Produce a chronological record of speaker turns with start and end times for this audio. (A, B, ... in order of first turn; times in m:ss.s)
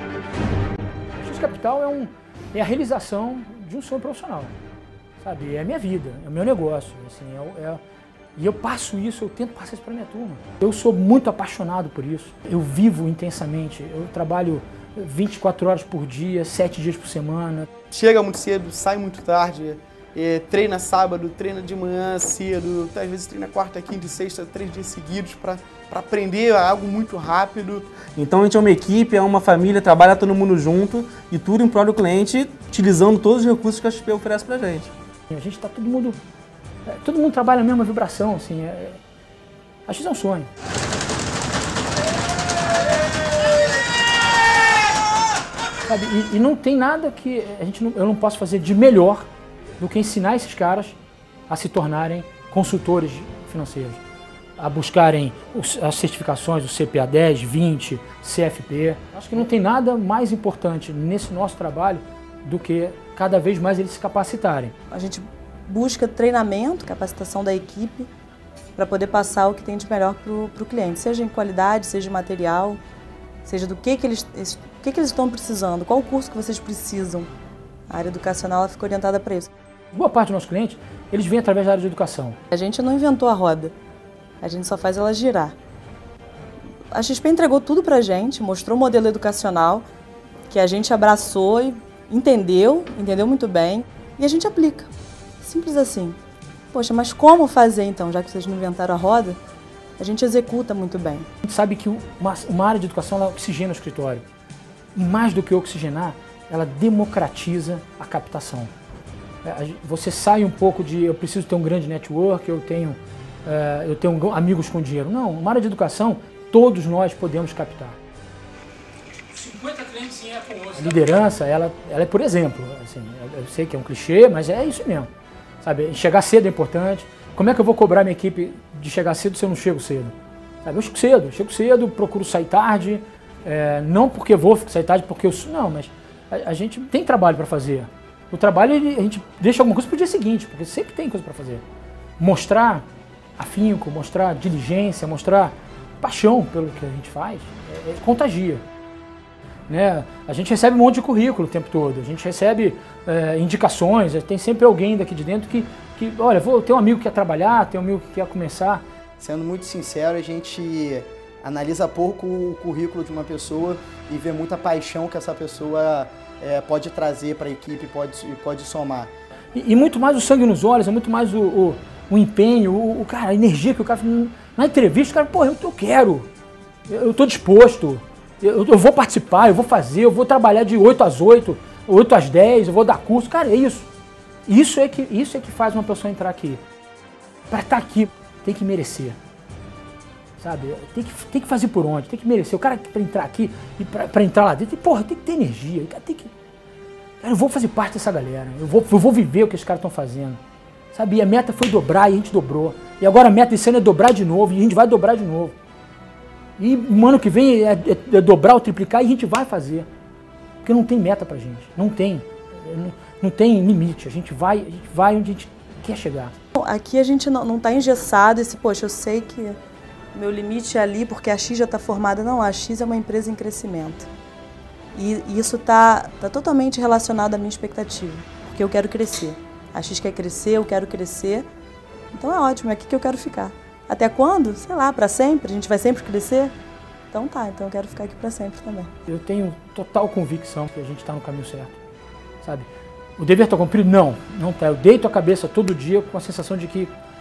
0:01.2-0:04.6 A
0:05.2-0:07.8 A
0:08.4-0:17.7 A
0:17.9-0:27.8 B
0:28.1-0:34.9 C
0:35.3-0:36.2 A
0:36.9-0:39.0 A
0:39.9-0:40.5 A
0:45.9-0:49.3 A
0:49.8-0:51.0 A
0:51.5-0:54.0 A
0:54.6-1:04.7 A
1:04.9-1:08.1 D
1:08.8-1:12.8 D
1:13.4-1:17.3 D
1:17.9-1:19.5 D
1:19.9-1:22.4 A
1:22.5-1:23.7 D
1:24.4-1:25.5 D
1:26.9-1:29.8 D
1:30.5-1:34.9 D
1:35.4-1:36.2 D
1:36.7-1:39.4 D
1:40.0-1:41.3 D
1:41.4-1:44.2 A
1:45.0-1:48.7 A
1:49.4-1:58.0 A
1:59.3-2:05.1 A
2:05.6-2:21.6 A
2:22.2-2:22.9 A
2:23.4-2:28.6 A
2:29.7-2:38.8 A
2:39.2-2:49.1 B
2:49.6-2:56.3 A
2:56.9-3:03.9 A
3:04.5-3:06.6 A
3:07.5-3:09.2 A
3:10.4-3:16.3 A
3:17.2-3:20.4 A
3:20.9-3:25.6 A
3:26.6-3:29.9 A
3:30.6-3:36.4 A
3:36.6-3:39.6 D
3:40.1-3:44.1 D
3:45.0-3:51.5 D
3:52.1-3:56.5 D
3:57.1-3:58.9 D
3:59.1-4:01.8 A
4:02.4-4:06.9 A